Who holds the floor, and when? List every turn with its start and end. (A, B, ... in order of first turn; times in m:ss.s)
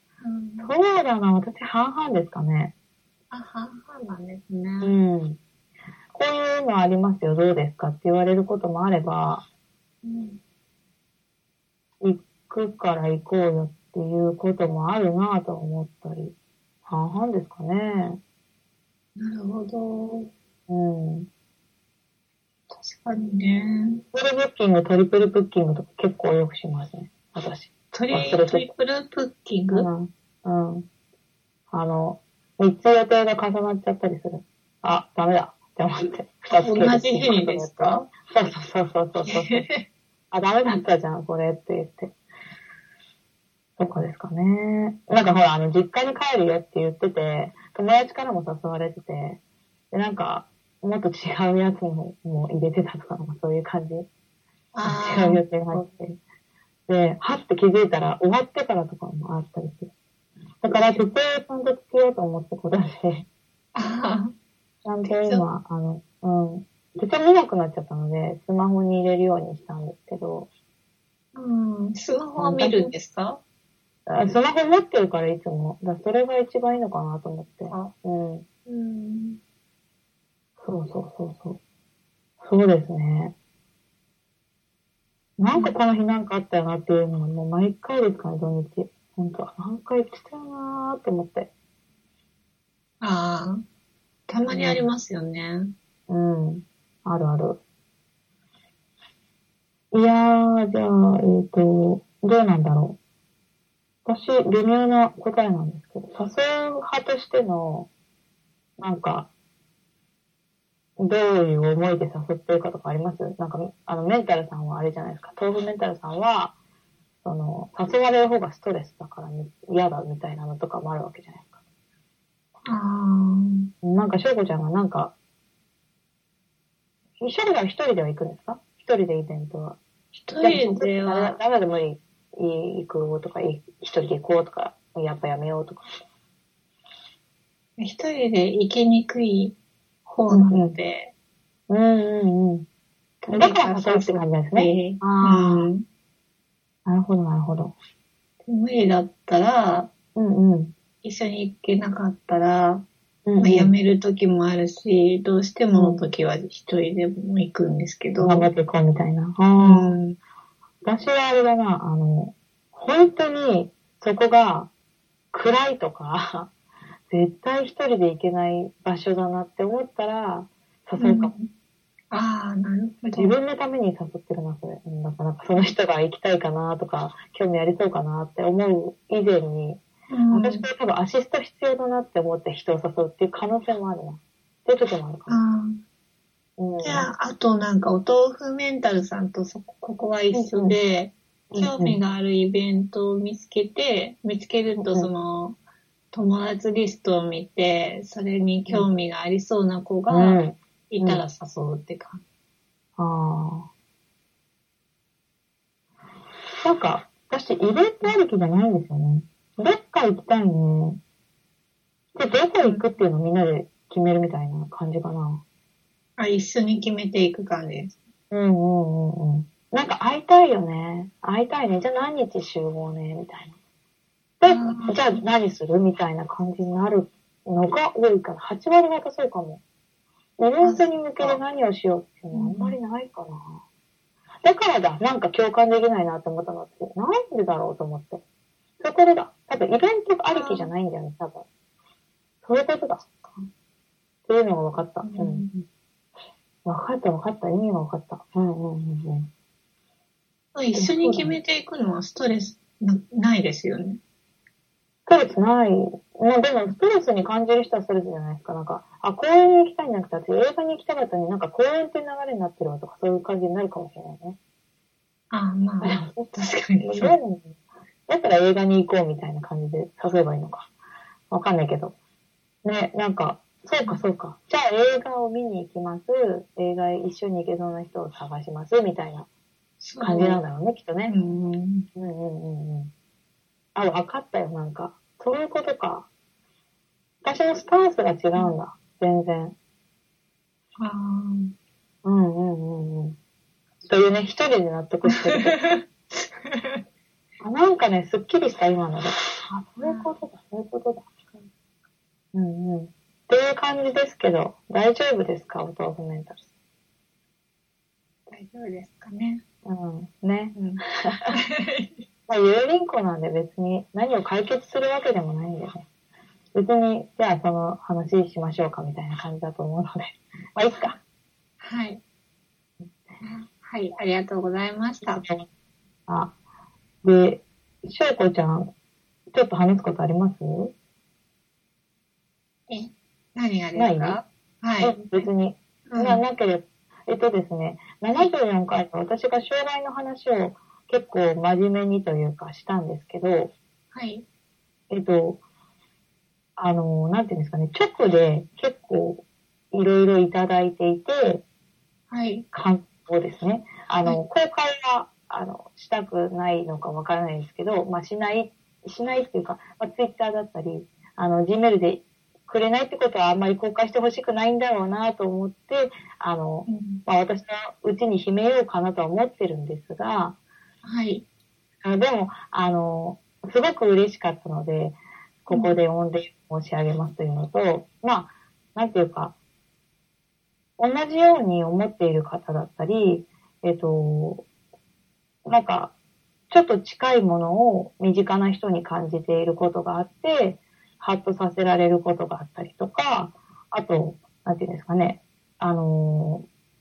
0:00.2-0:00.7 A
0:00.6-0:02.7 B
0:03.3-0:05.0 A
0:04.8-0:05.4 B
0:06.1-0:09.4 B
0:10.0-0:10.4 A
0:12.0-0:16.3 B
0:16.9-0:18.2 B
0:19.2-0:20.3 A
0:20.7-0:21.3 B
0:22.7-0:24.0 A
0:24.1-0:28.7 B
0:27.9-0:29.9 A
0:29.7-0:30.9 B
0:31.7-0:39.7 B
0:36.6-0:38.1 A
0:39.3-0:39.8 A
0:40.3-0:42.1 B
0:43.8-0:49.4 B
0:49.9-0:54.1 B
0:54.7-0:55.8 A
0:54.8-0:56.2 B
0:56.9-0:59.9 B
1:00.6-1:03.3 B
1:03.7-1:04.3 A
1:04.8-1:10.5 B
1:05.0-1:05.4 A
1:11.3-1:13.4 A
1:12.4-1:12.9 B
1:14.1-1:18.4 B
1:18.6-1:19.4 A
1:20.6-1:21.6 B
1:22.4-1:23.3 B
1:25.4-1:31.5 B
1:25.5-1:25.8 A
1:33.0-1:33.6 A
1:34.3-1:35.7 A
1:34.5-1:34.9 B
1:36.1-1:37.6 B
1:39.9-1:43.0 B
1:44.0-1:47.9 B
1:48.8-1:49.3 B
1:51.0-1:56.5 B
1:57.2-2:01.5 B
2:02.6-2:03.7 A
2:03.8-2:05.1 B
2:07.2-2:09.8 B
2:10.2-2:11.4 A
2:10.4-2:15.9 B
2:17.8-2:21.1 A
2:20.3-2:20.8 B
2:21.7-2:22.6 B
2:23.2-2:25.8 A
2:23.3-2:25.7 B
2:26.8-2:27.7 B
2:28.4-2:29.9 A
2:30.2-2:30.7 B
2:31.0-2:32.8 A
2:33.2-2:33.7 B
2:33.4-2:38.5 A
2:35.7-2:36.0 B
2:38.2-2:40.2 B
2:39.6-2:40.0 A
2:40.8-2:44.7 B
2:45.3-2:46.5 B
2:47.1-2:51.3 B
2:51.0-2:51.5 A
2:52.1-2:53.3 A
2:53.1-3:05.4 B
3:00.1-3:00.6 A
3:05.3-3:05.8 A
3:06.6-3:07.1 B
3:06.8-3:15.6 A
3:10.3-3:10.8 B
3:11.5-3:12.0 B
3:14.8-3:15.1 B
3:16.1-3:20.4 A
3:20.1-3:21.2 B
3:20.9-3:22.2 A
3:23.0-3:23.7 B
3:26.6-3:31.0 B
3:32.1-3:35.4 B
3:36.2-3:37.9 A
3:38.3-3:43.5 B
3:44.4-3:49.6 B
3:44.4-3:45.2 A
3:50.4-3:53.6 B
3:50.6-3:51.4 A
3:52.3-3:52.8 A
3:54.4-3:58.2 B
3:58.8-4:01.4 B
4:00.3-4:00.7 A
4:02.4-4:03.0 B
4:04.3-4:05.5 B
4:05.0-4:05.5 A
4:06.6-4:09.3 B
4:10.5-4:14.0 A
4:10.7-4:11.4 B
4:15.0-4:24.4 B
4:25.3-4:27.2 A
4:25.8-4:27.5 B
4:28.1-4:30.7 B
4:31.3-4:31.9 B
4:32.6-4:39.3 B
4:39.8-4:40.4 A
4:40.0-4:41.1 B
4:41.1-4:41.9 A
4:41.9-4:42.9 B
4:43.7-4:46.1 B
4:47.2-4:49.5 B
4:50.8-4:51.5 A
4:52.0-4:53.2 B
4:53.8-4:55.6 B
4:55.2-4:56.8 A
4:57.4-5:01.4 B
4:59.8-5:00.1 A
5:02.3-5:06.4 B
5:08.3-5:09.4 A
5:09.6-5:11.3 B
5:10.5-5:12.0 A
5:12.3-5:15.8 B
5:16.5-5:21.0 B
5:21.6-5:22.0 A
5:23.2-5:25.2 A
5:25.0-5:25.4 B
5:26.1-5:26.3 B
5:27.0-5:28.7 B
5:29.3-5:30.7 B
5:32.7-5:35.3 A
5:33.8-5:34.2 B
5:34.8-5:43.5 B
5:35.9-5:36.2 A
5:43.9-5:44.2 A
5:44.9-5:45.4 B
5:46.6-5:51.4 B
5:52.1-5:52.4 A
5:52.5-6:10.4 B
6:06.6-6:07.0 A
6:10.8-6:11.2 A
6:11.8-6:19.3 B
6:15.5-6:15.8 A
6:20.8-6:24.4 B
6:25.4-6:25.9 B
6:26.5-6:36.4 B